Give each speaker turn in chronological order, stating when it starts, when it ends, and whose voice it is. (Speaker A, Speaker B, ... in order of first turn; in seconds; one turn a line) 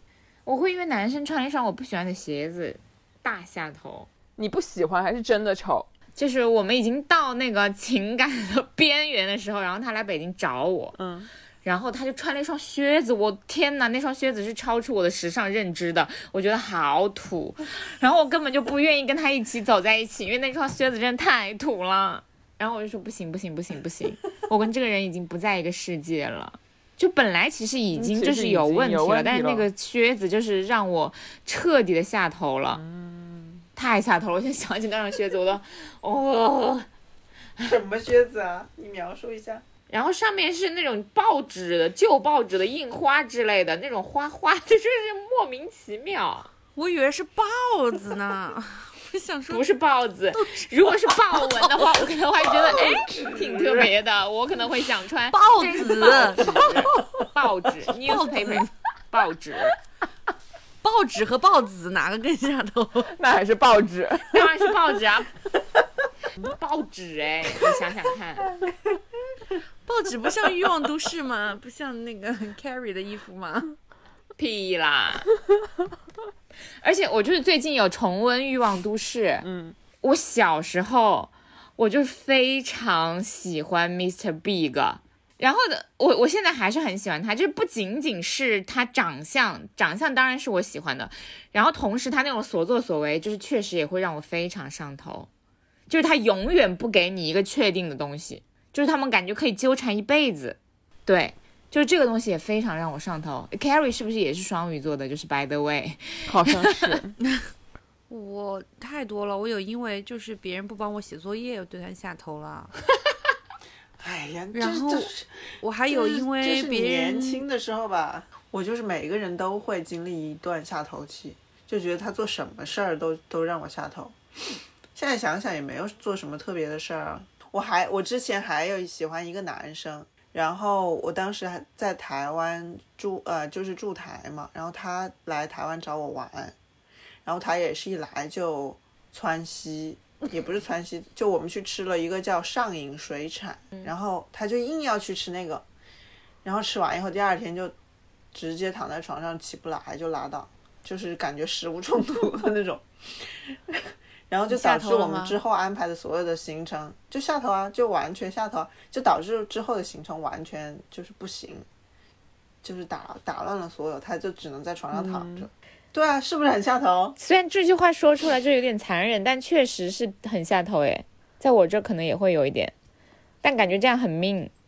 Speaker A: 0.5-4.1
Speaker B: 4.4-5.9
Speaker A: 6.2-11.0
Speaker B: 10.9-11.3
Speaker A: 11.6-32.8
Speaker B: 27.9-29.7
Speaker B: 32.7-33.6
Speaker A: 33.8-36.9
Speaker C: 37.6-39.6
Speaker A: 39.9-46.5
Speaker D: 46.7-49.6
Speaker A: 49.5-59.8
Speaker D: 50.3-52.1
Speaker C: 52.6-53.9
Speaker D: 55.3-56.6
Speaker D: 57.9-58.7
Speaker D: 60.8-63.1
Speaker B: 63.1-64.7
Speaker A: 64.3-65.3
Speaker A: 66.4-68.5
Speaker D: 69.8-73.7
Speaker A: 74.4-75.3
Speaker A: 76.8-79.5
Speaker B: 79.4-79.8
Speaker A: 80.0-95.3
Speaker A: 95.9-106.9
Speaker B: 106.3-107.2
Speaker D: 108.1-112.7
Speaker C: 114.0-124.1
Speaker D: 114.5-117.4
Speaker C: 124.9-136.5
Speaker C: 137.2-145.6
Speaker C: 146.4-147.7
Speaker C: 148.3-161.6
Speaker D: 154.5-155.4
Speaker C: 162.6-167.2
Speaker B: 164.9-165.5
Speaker A: 167.2-172.7
Speaker A: 173.4-174.5